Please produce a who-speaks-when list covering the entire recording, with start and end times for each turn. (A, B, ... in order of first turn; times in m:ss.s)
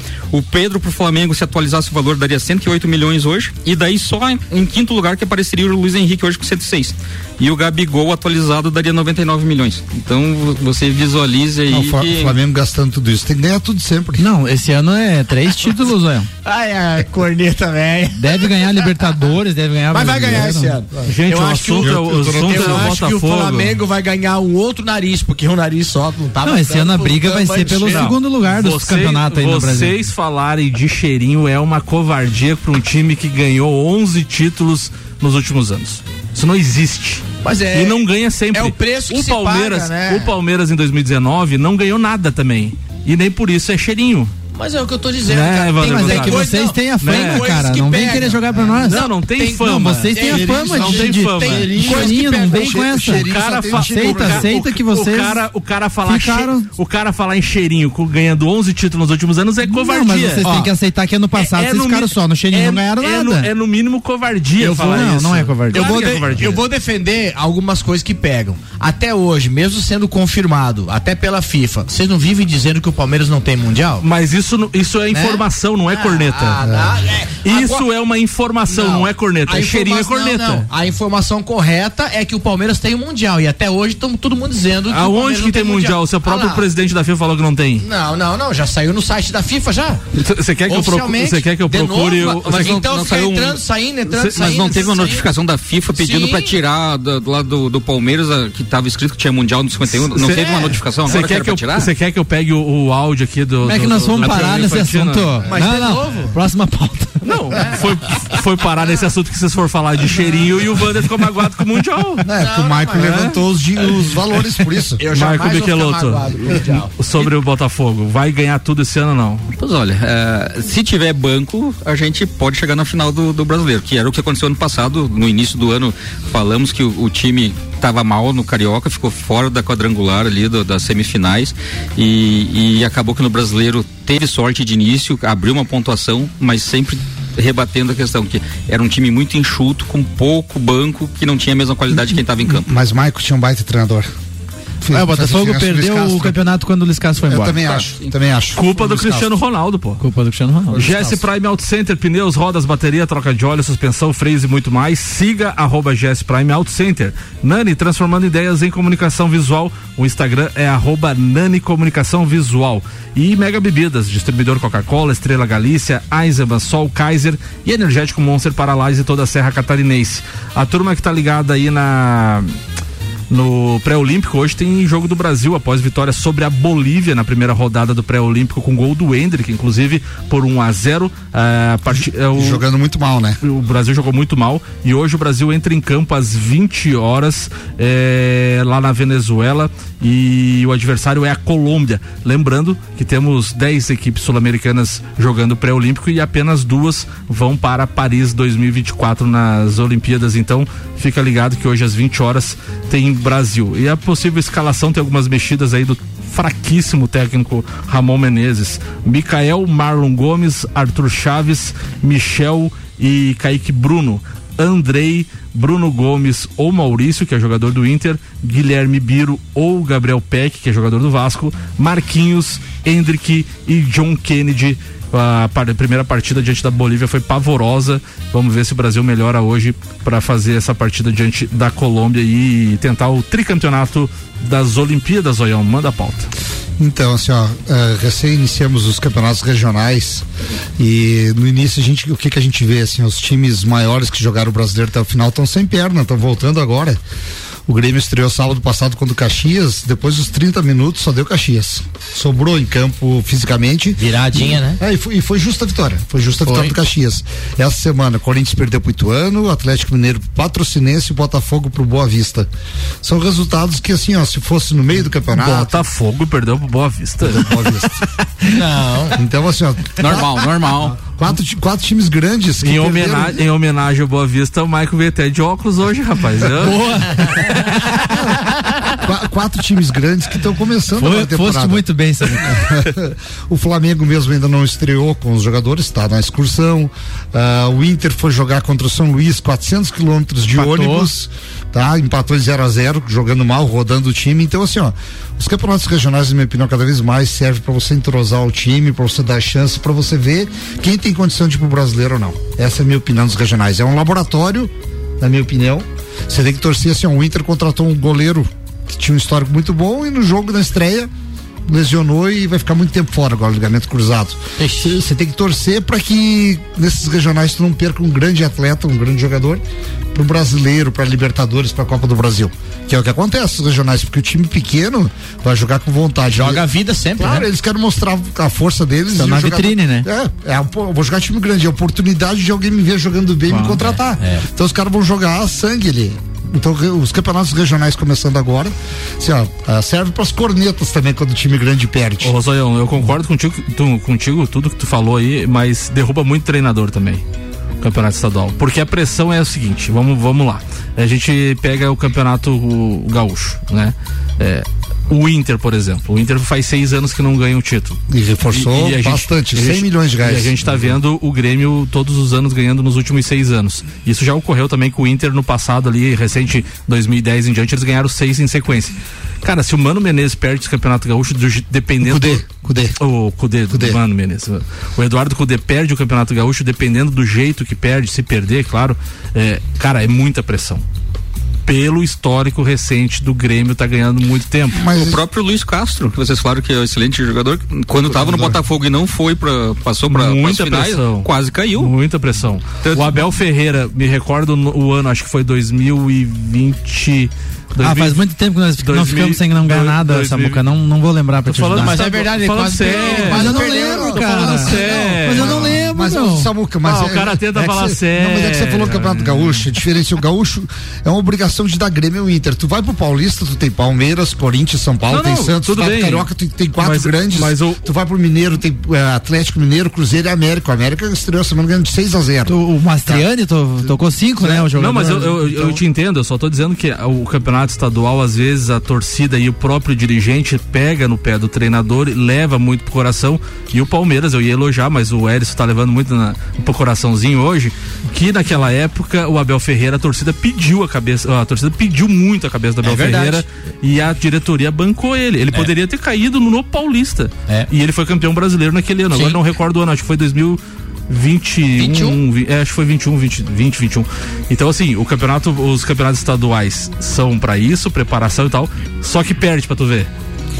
0:00.3-0:12.4 A
0:11.7-0:14.2 B
0:14.2-0:16.3 C
0:16.4-0:19.0 D
0:18.2-0:20.8 C
0:19.9-0:28.2 D
0:21.1-0:23.8 E
0:21.7-0:23.1 B
0:26.4-0:30.0 C
0:27.8-0:44.3 E
0:37.4-0:40.3 D
0:44.5-0:52.3 D
0:45.2-0:46.4 E
0:45.8-0:55.4 C
0:47.0-0:47.6 E
0:48.8-0:52.1 E
0:50.3-0:54.5 B
0:52.7-1:00.4 E
0:56.0-0:56.7 C
0:59.7-1:03.5 C
1:00.4-1:00.7 D
1:01.3-1:06.6 E
1:04.6-1:14.0 D
1:04.6-1:05.9 C
1:14.0-1:16.6 E
1:15.1-1:17.8 D
1:16.6-1:16.9 B
1:17.4-1:20.7 E
1:18.7-1:26.6 D
1:24.9-1:27.8 E
1:27.8-1:30.0 D
1:30.1-1:32.8 E
1:30.7-1:35.3 D
1:32.3-1:33.6 A
1:34.1-1:34.5 E
1:34.3-1:41.9 A
1:35.9-1:36.5 D
1:39.9-1:45.3 E
1:43.6-1:47.3 C
1:45.5-1:46.4 D
1:47.2-1:52.2 E
1:52.2-1:55.0 B
1:52.3-1:53.3 D
1:52.9-1:53.4 E
1:55.0-1:57.3 D
1:55.1-1:59.5 E
1:59.6-2:22.7 A
2:21.9-2:24.1 B
2:24.8-2:26.4 B
2:24.9-2:27.6 C
2:27.3-2:29.3 B
2:27.7-2:28.0 A
2:28.5-2:30.0 E
2:30.0-2:30.8 C
2:30.7-2:31.2 B
2:30.7-2:52.5 E
2:53.3-3:02.6 E
3:02.0-3:03.4 B
3:03.4-3:56.3 E
3:56.8-4:00.2 B
4:00.8-4:07.0 B
4:07.7-4:22.5 B
4:14.0-4:14.8 D
4:23.0-4:25.8 B
4:25.3-4:27.8 E
4:27.2-4:28.0 B
4:28.5-4:29.2 D
4:29.2-4:33.4 B
4:30.0-4:31.0 A
4:32.6-4:36.8 E
4:36.6-4:37.4 C
4:36.6-4:37.5 D
4:39.0-4:41.8 B
4:41.0-4:42.6 C
4:42.4-5:11.1 B
4:50.5-4:51.1 C
5:11.6-5:19.6 B
5:14.6-5:15.0 D
5:20.1-5:26.6 B
5:26.3-5:27.5 D
5:27.2-5:42.3 B
5:29.1-5:30.1 C
5:33.5-5:33.9 C
5:34.2-5:34.4 D
5:42.2-5:47.2 E
5:47.8-5:58.0 E
5:58.1-6:01.0 B
5:58.5-6:12.5 E
6:12.0-6:13.0 B
6:13.0-6:20.8 E
6:13.7-6:14.0 B
6:21.6-6:24.8 E
6:24.7-6:25.2 B
6:24.9-6:31.9 A
6:28.2-6:28.6 B
6:30.1-6:38.2 E
6:37.8-6:42.0 C
6:38.8-6:40.6 E
6:41.4-6:43.6 E
6:41.7-6:44.8 D
6:42.9-7:03.2 B
6:43.1-6:46.5 C
6:44.2-6:45.7 E
6:46.8-6:49.7 E
6:55.1-6:57.9 E
7:02.5-7:05.8 C
7:04.4-7:40.1 E
7:22.8-7:23.4 D
7:29.1-7:29.4 D
7:31.8-7:32.2 D